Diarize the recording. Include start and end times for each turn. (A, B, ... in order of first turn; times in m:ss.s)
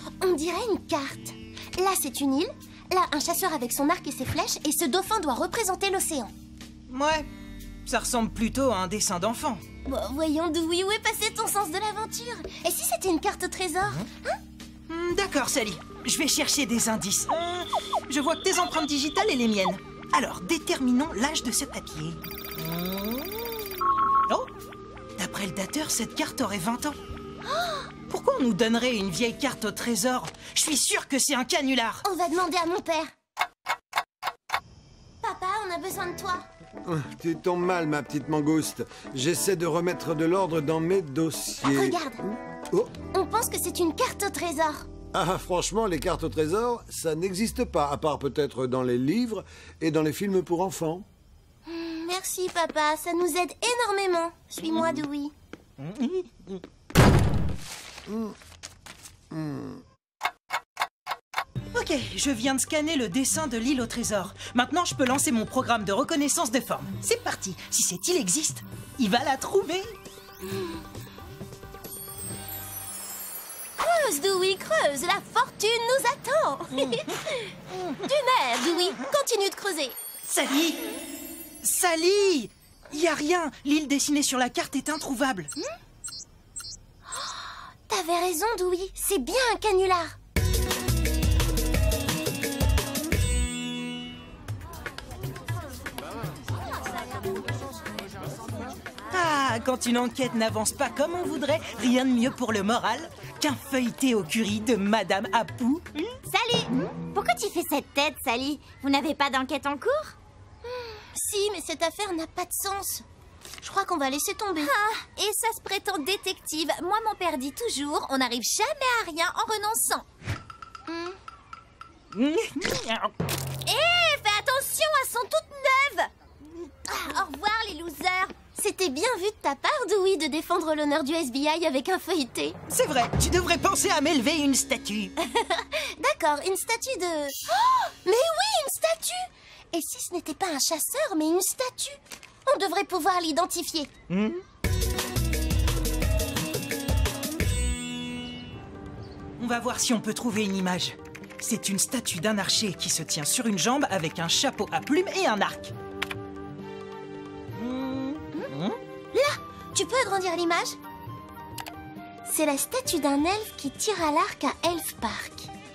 0:00.2-0:06.3 A
0:06.9-0:07.3 B
0:07.8-0:09.6 B
0:09.8-0:14.4 A
0:14.9-0:23.6 B
0:25.2-0:27.0 B
0:27.4-0:27.9 A
0:28.1-0:32.0 B
0:32.0-0:33.1 A
0:35.2-0:36.4 A
0:36.8-0:42.9 C
0:41.7-0:42.2 A
0:43.1-0:44.9 A
0:45.1-0:51.0 C
0:51.6-0:55.3 A
0:55.8-0:56.6 B
0:58.1-0:58.3 C
0:59.3-0:59.8 C
1:01.7-1:10.0 B
1:13.8-1:17.5 A
1:18.0-1:20.0 A
1:20.2-1:20.8 B
1:21.6-1:25.5 B
1:27.1-1:30.1 A
1:39.1-1:46.0 B
1:46.9-1:50.1 D
1:50.6-1:53.0 A
1:53.6-1:54.7 A
1:54.6-2:00.0 E
2:00.9-2:01.2 A
2:02.1-2:03.1 B
2:03.6-2:08.5 E
2:08.5-2:12.6 A
2:12.7-2:15.1 B
2:15.8-2:23.9 A
2:24.1-2:24.4 B
2:29.4-2:35.7 B
2:37.6-2:38.8 B
2:39.1-2:40.8 A
2:42.2-2:45.5 A